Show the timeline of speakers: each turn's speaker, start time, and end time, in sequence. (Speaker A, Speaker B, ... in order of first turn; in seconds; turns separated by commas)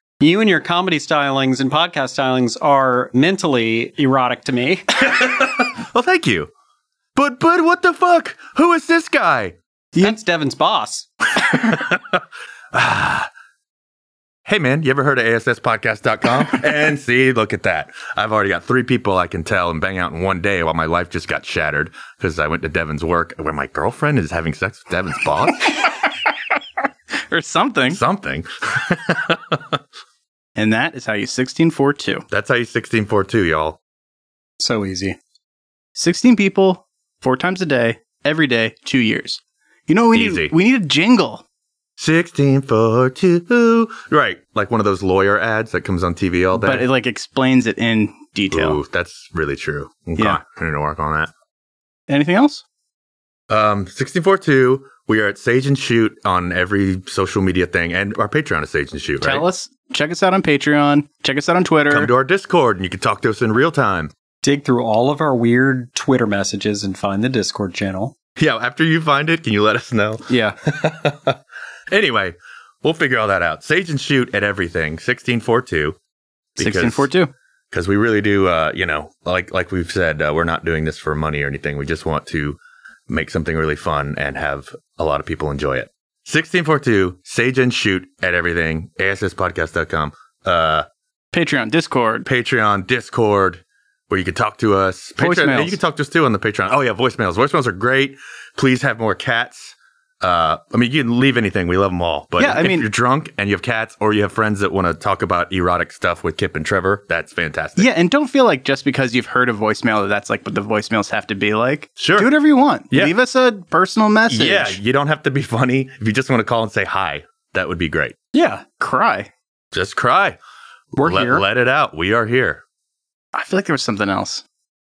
Speaker A: 0.2-4.8, Speaker B: 5.0-6.5, Speaker B: 7.1-9.6, Speaker A: 10.0-11.1, Speaker B: 11.6-12.2, Speaker B: 12.7-13.3, Speaker B: 14.4-25.7, Speaker C: 27.3-28.0, Speaker B: 27.9-29.8, Speaker C: 30.6-32.2, Speaker B: 32.3-33.8, Speaker A: 34.6-35.2, Speaker C: 36.0-41.4, Speaker B: 40.1-40.5, Speaker B: 42.0-46.9, Speaker C: 46.5-48.8, Speaker B: 48.5-51.3, Speaker C: 52.1-52.6, Speaker B: 53.5-59.4, Speaker C: 59.2-62.1, Speaker B: 61.9-64.1, Speaker A: 64.4-68.1, Speaker B: 68.4-71.4, Speaker C: 70.3-70.5, Speaker B: 71.9-76.0, Speaker B: 76.6-77.1, Speaker C: 76.6-77.3, Speaker B: 77.7-82.6, Speaker B: 83.1-90.8, Speaker C: 91.3-92.2, Speaker B: 92.2-107.9, Speaker C: 95.2-95.8, Speaker C: 102.4-102.9, Speaker C: 107.8-114.8, Speaker B: 112.0-112.3, Speaker B: 114.3-118.2, Speaker A: 118.3-118.6, Speaker C: 118.8-119.3, Speaker B: 119.7-120.4, Speaker B: 121.0-122.6, Speaker C: 121.0-121.4, Speaker C: 123.3-124.4